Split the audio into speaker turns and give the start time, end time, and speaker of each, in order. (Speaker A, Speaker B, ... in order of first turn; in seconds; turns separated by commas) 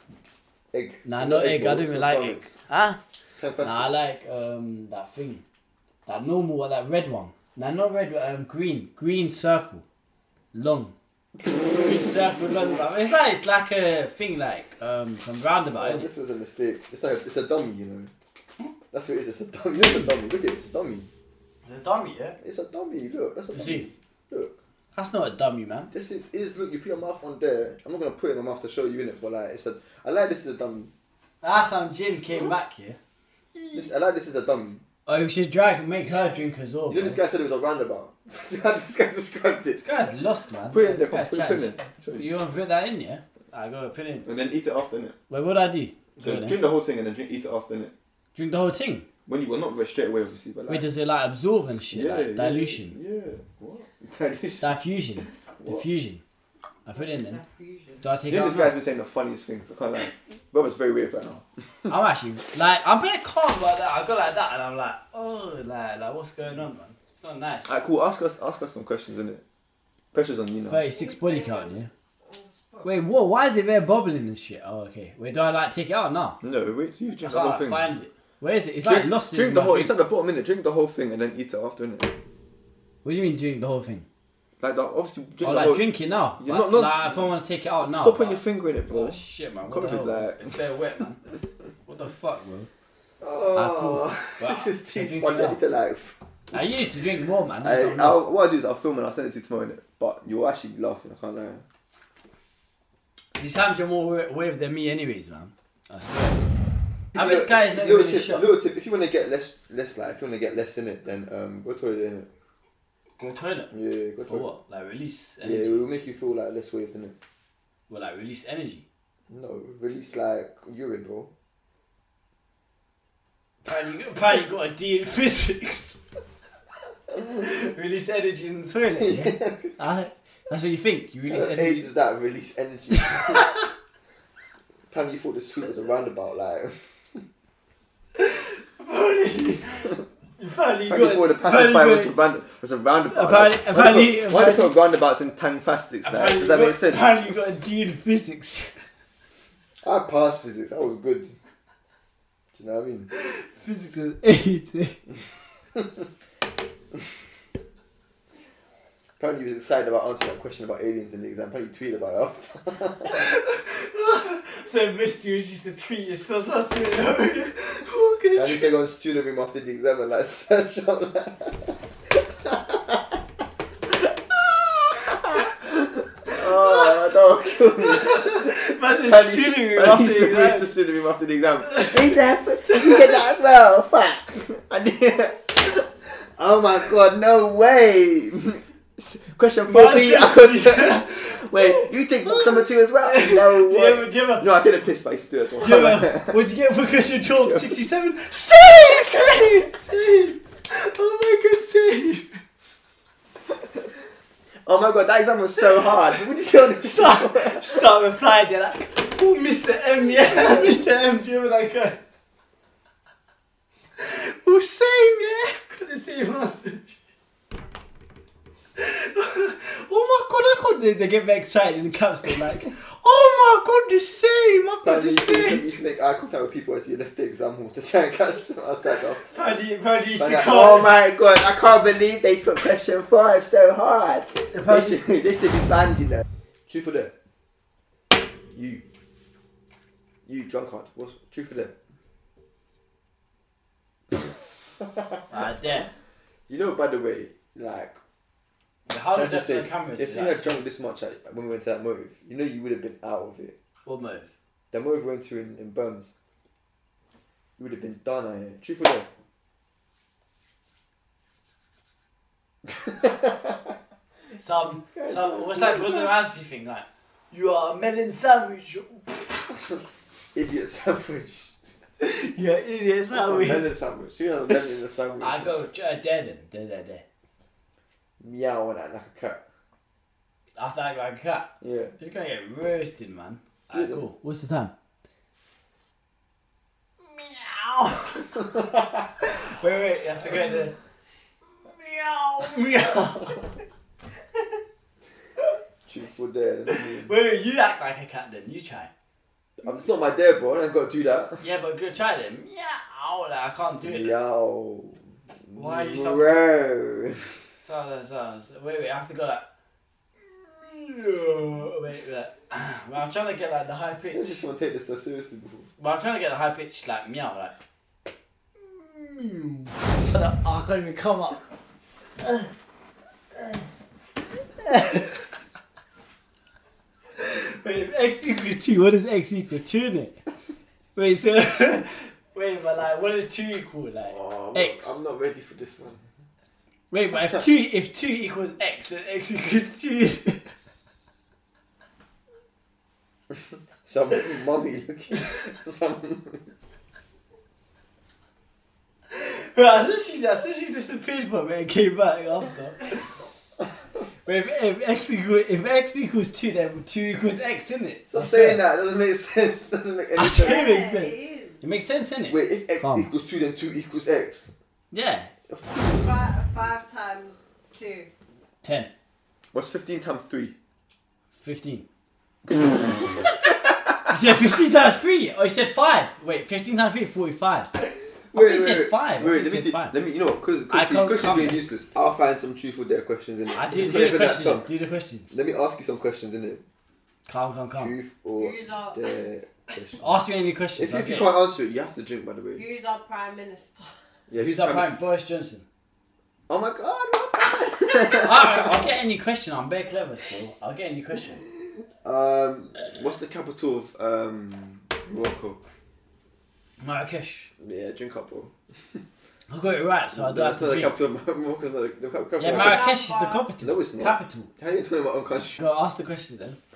Speaker A: 0.7-2.5, Speaker B: 1.1-3.0, Speaker A: 3.3-3.9, Speaker B: 3.6-5.4, Speaker B: 6.1-9.8, Speaker B: 10.5-10.9, Speaker B: 11.5-16.1, Speaker A: 15.7-18.1, Speaker A: 18.9-21.1, Speaker B: 21.6-22.4, Speaker A: 22.4-24.6, Speaker B: 23.5-23.9, Speaker B: 24.9-25.9, Speaker A: 25.9-30.9, Speaker B: 31.4-33.0, Speaker B: 33.5-33.9, Speaker A: 33.7-34.8, Speaker B: 35.1-37.2, Speaker A: 36.9-39.8, Speaker B: 39.8-44.3, Speaker A: 40.7-42.3, Speaker A: 44.2-45.2, Speaker B: 45.3-46.6, Speaker A: 46.2-47.9, Speaker B: 48.4-49.1, Speaker A: 49.3-50.9, Speaker B: 50.7-53.0, Speaker A: 51.9-54.7, Speaker B: 54.6-56.2, Speaker A: 55.6-55.9, Speaker B: 56.9-57.4, Speaker C: 56.9-58.0, Speaker B: 58.0-58.7, Speaker A: 58.3-61.9, Speaker B: 61.9-67.8, Speaker A: 67.7-69.4, Speaker A: 70.1-70.8, Speaker B: 70.7-71.9, Speaker C: 70.8-73.0, Speaker B: 72.8-76.4, Speaker A: 76.4-77.9, Speaker B: 77.2-79.9, Speaker A: 78.8-82.1, Speaker B: 83.0-84.1, Speaker A: 84.6-85.9, Speaker B: 85.4-91.2, Speaker A: 86.4-87.3, Speaker A: 87.8-90.5, Speaker B: 91.9-92.7, Speaker A: 93.2-96.2, Speaker B: 93.5-95.6, Speaker B: 96.5-98.3, Speaker A: 97.6-101.6, Speaker B: 103.4-106.4, Speaker A: 107.1-112.3, Speaker B: 107.2-108.5, Speaker B: 113.2-116.0, Speaker A: 113.7-114.5, Speaker A: 115.4-117.2, Speaker B: 117.9-118.8, Speaker A: 119.3-121.3, Speaker B: 123.7-126.0, Speaker B: 127.2-131.9, Speaker A: 129.0-129.7, Speaker A: 131.3-133.5, Speaker A: 134.9-137.2, Speaker B: 138.2-142.2, Speaker A: 140.9-147.3, Speaker B: 143.1-144.7, Speaker B: 146.0-148.9, Speaker A: 149.8-151.4, Speaker A: 152.5-153.1, Speaker B: 153.1-155.0, Speaker A: 159.2-163.3, Speaker B: 163.1-168.7, Speaker A: 168.4-173.2, Speaker A: 174.0-196.4, Speaker B: 176.5-176.9, Speaker B: 177.6-180.7, Speaker B: 181.7-182.0, Speaker B: 189.7-194.5, Speaker B: 195.6-202.4, Speaker A: 197.3-197.7, Speaker A: 203.5-203.9, Speaker A: 204.6-207.9, Speaker B: 206.7-212.0, Speaker A: 210.3-210.7, Speaker B: 214.0-217.0, Speaker B: 218.8-225.7, Speaker A: 224.8-229.3, Speaker B: 229.2-230.9, Speaker A: 230.2-237.1, Speaker B: 234.5-235.0, Speaker A: 238.5-238.8, Speaker A: 240.3-241.7, Speaker B: 245.3-245.9, Speaker A: 246.5-248.0, Speaker B: 248.9-250.6, Speaker A: 249.1-253.6, Speaker B: 253.8-254.3, Speaker A: 254.7-256.1, Speaker A: 257.6-259.1, Speaker A: 262.7-263.6, Speaker B: 264.4-269.6, Speaker A: 264.9-266.1, Speaker A: 270.3-271.6, Speaker B: 272.0-273.7, Speaker A: 273.1-275.7, Speaker B: 275.2-277.0, Speaker A: 278.2-279.4, Speaker B: 280.6-284.7, Speaker A: 281.6-282.0, Speaker A: 283.7-284.0, Speaker B: 287.0-288.7, Speaker B: 289.2-290.8, Speaker B: 291.7-293.5, Speaker A: 295.9-297.1, Speaker B: 296.7-298.9, Speaker A: 299.6-301.4, Speaker B: 301.4-304.1, Speaker A: 303.8-307.4, Speaker B: 305.6-306.4, Speaker B: 307.6-309.4, Speaker B: 310.2-314.4, Speaker A: 314.1-315.7, Speaker B: 315.8-317.6, Speaker B: 318.7-321.5, Speaker B: 322.2-322.5, Speaker B: 323.4-323.6, Speaker B: 324.6-325.3, Speaker B: 327.2-330.2, Speaker B: 331.0-335.0, Speaker A: 334.1-336.1, Speaker B: 336.9-340.5, Speaker A: 343.9-346.5, Speaker B: 349.1-353.0, Speaker B: 354.2-358.6, Speaker A: 358.1-360.7, Speaker B: 360.2-363.1, Speaker C: 360.3-361.6, Speaker A: 362.3-364.5, Speaker B: 364.9-365.3, Speaker A: 365.5-366.1, Speaker C: 365.8-368.1, Speaker B: 368.6-368.9, Speaker A: 369.5-370.6, Speaker B: 371.4-371.9, Speaker B: 374.0-377.7, Speaker A: 378.3-384.7, Speaker B: 378.3-380.0, Speaker B: 380.7-381.6, Speaker B: 383.5-385.3, Speaker A: 385.3-386.6, Speaker B: 387.3-387.9, Speaker A: 387.8-390.1, Speaker C: 388.4-389.1, Speaker B: 390.0-391.3, Speaker A: 390.8-392.6, Speaker C: 392.6-394.0, Speaker A: 394.3-394.9, Speaker B: 394.4-395.6, Speaker A: 396.5-398.9, Speaker B: 398.1-401.4, Speaker A: 402.0-405.6, Speaker B: 406.8-407.5, Speaker A: 407.6-409.0, Speaker B: 409.5-410.9, Speaker A: 410.1-412.9, Speaker B: 412.4-414.5, Speaker C: 412.4-413.5, Speaker A: 413.6-415.6, Speaker B: 415.6-416.6